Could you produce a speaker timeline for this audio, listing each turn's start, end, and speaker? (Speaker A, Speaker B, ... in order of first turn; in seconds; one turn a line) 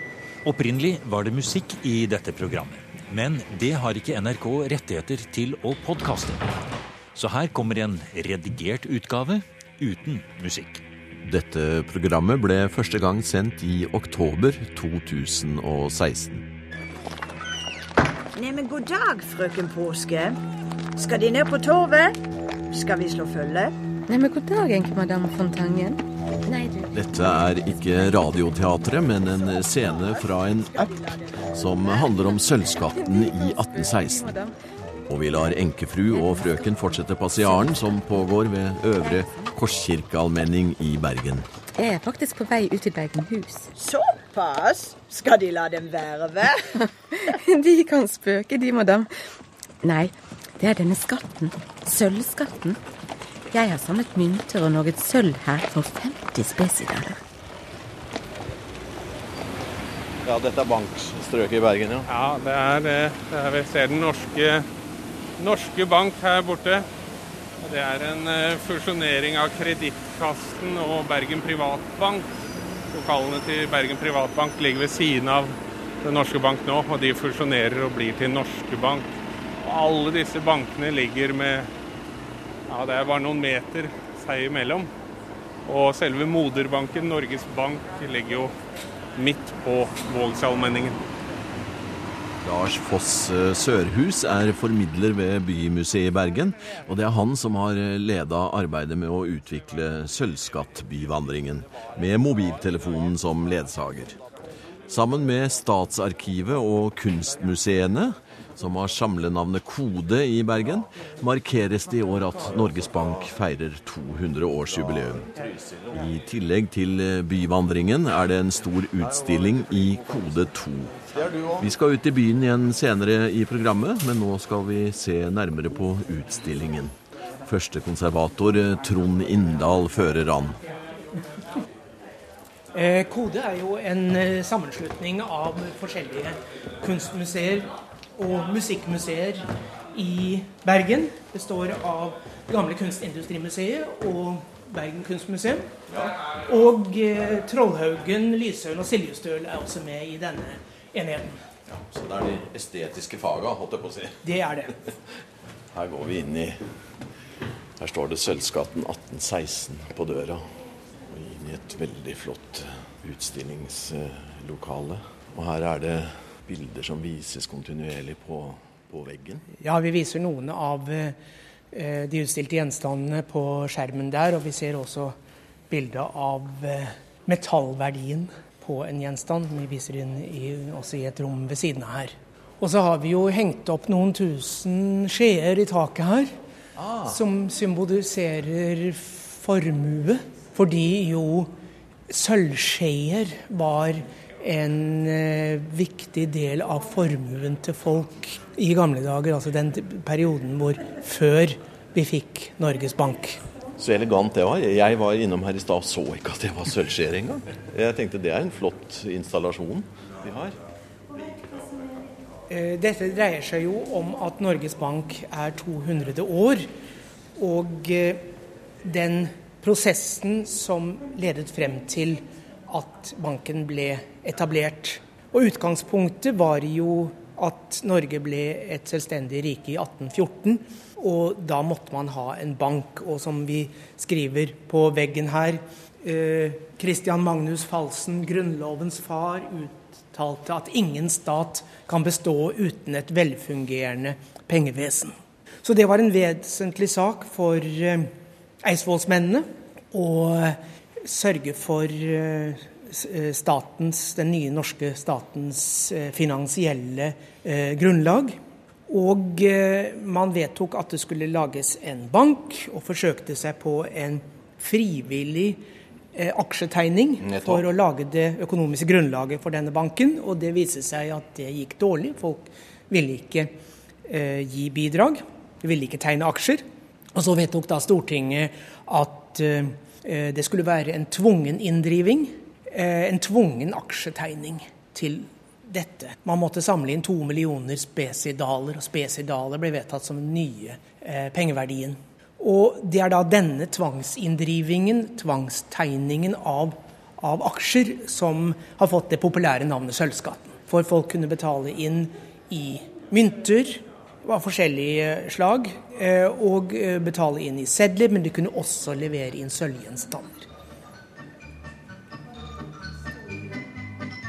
Speaker A: 0.4-6.5
Speaker A: 7.1-10.8
Speaker B: 11.2-16.5
Speaker C: 18.4-20.4
Speaker C: 21.0-22.2
Speaker C: 22.7-23.7
Speaker D: 24.1-26.9
Speaker B: 26.9-30.9
Speaker C: 29.2-31.6
Speaker B: 31.5-34.4
Speaker D: 32.1-34.5
Speaker B: 35.1-41.5
Speaker D: 36.1-36.8
Speaker D: 37.4-37.8
Speaker D: 39.0-39.5
Speaker D: 41.7-43.7
Speaker C: 43.8-46.7
Speaker D: 47.1-49.1
Speaker D: 49.8-52.8
Speaker D: 53.5-57.2
Speaker B: 60.2-62.1
Speaker E: 62.1-64.7
Speaker E: 65.4-66.9
Speaker E: 67.6-72.2
Speaker E: 72.9-81.7
Speaker E: 82.7-84.9
Speaker E: 85.7-88.5
Speaker E: 89.2-91.0
Speaker B: 92.4-104.2
Speaker B: 104.9-130.6
Speaker F: 132.7-145.7
Speaker B: 145.9-146.2
Speaker F: 146.4-151.4
Speaker B: 151.7-154.2
Speaker F: 154.2-154.8
Speaker B: 155.7-156.6
Speaker B: 157.8-169.4
Speaker F: 169.6-171.2
Speaker F: 171.7-175.1
Speaker F: 175.7-186.3
Speaker B: 186.8-187.2
Speaker F: 187.1-191.5
Speaker F: 192.1-203.4
Speaker B: 203.8-210.6
Speaker F: 212.5-216.7
Speaker F: 217.4-218.2
Speaker F: 218.8-248.1
Speaker F: 248.6-258.4
Speaker F: 258.9-265.6
Speaker F: 266.1-273.5
Speaker B: 267.2-267.7
Speaker F: 274.1-276.6
Speaker F: 277.1-310.5